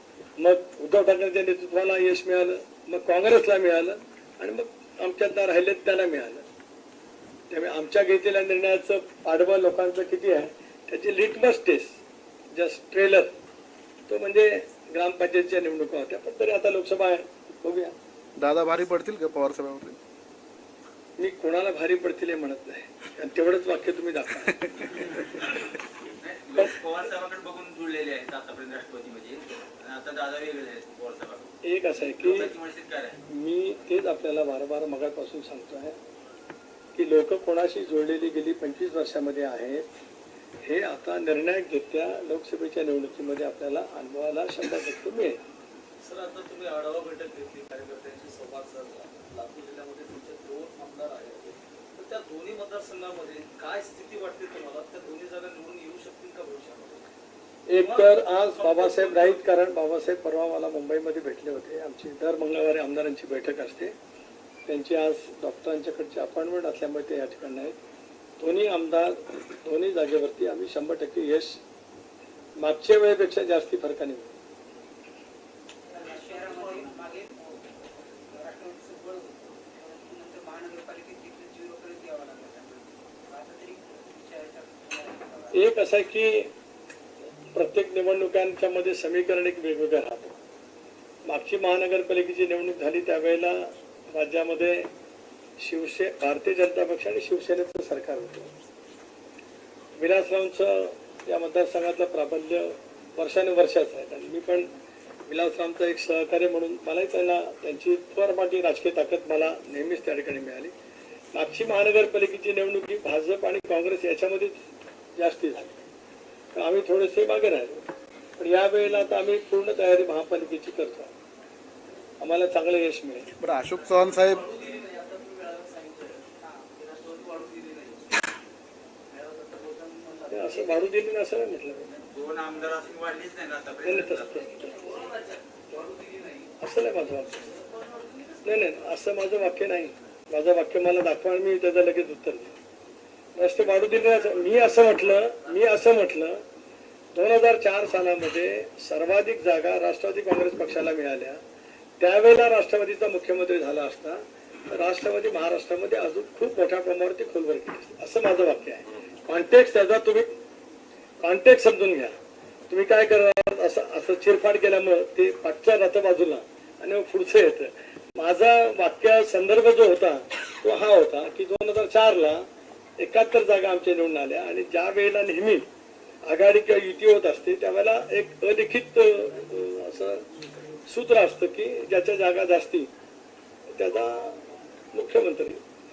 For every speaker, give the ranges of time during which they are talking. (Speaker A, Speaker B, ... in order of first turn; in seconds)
Speaker A: 0.4-6.4, 7.5-12.0, 12.5-13.3, 14.1-17.9, 21.2-24.6, 31.6-32.5, 33.3-36.0, 37.0-39.9, 40.6-45.4, 57.7-63.9, 64.7-67.8, 68.4-71.6, 72.6-74.3, 85.5-86.5, 87.5-90.3, 91.3-94.9, 95.6-98.5, 100.0-104.7, 105.3-110.7, 111.3-114.6, 115.2-115.7, 116.5-117.8, 118.4-121.1, 122.2-123.3, 130.3-131.9, 133.8-134.7, 136.6-137.5, 138.4-142.6, 143.4-146.4, 147.1-151.4, 152.0-160.3, 161.2-162.1, 162.7-172.5, 173.0-175.7, 176.3-180.2, 180.9-182.9, 183.7-184.4, 184.9-185.6
Speaker B: 18.4-20.0, 123.4-124.5
Speaker C: 26.2-33.2, 132.1-134.5
Speaker D: 46.0-57.0, 57.8-59.4
Speaker E: 75.9-77.7, 78.3-85.6, 124.5-128.0, 129.1-130.8, 134.4-136.5, 137.7-138.4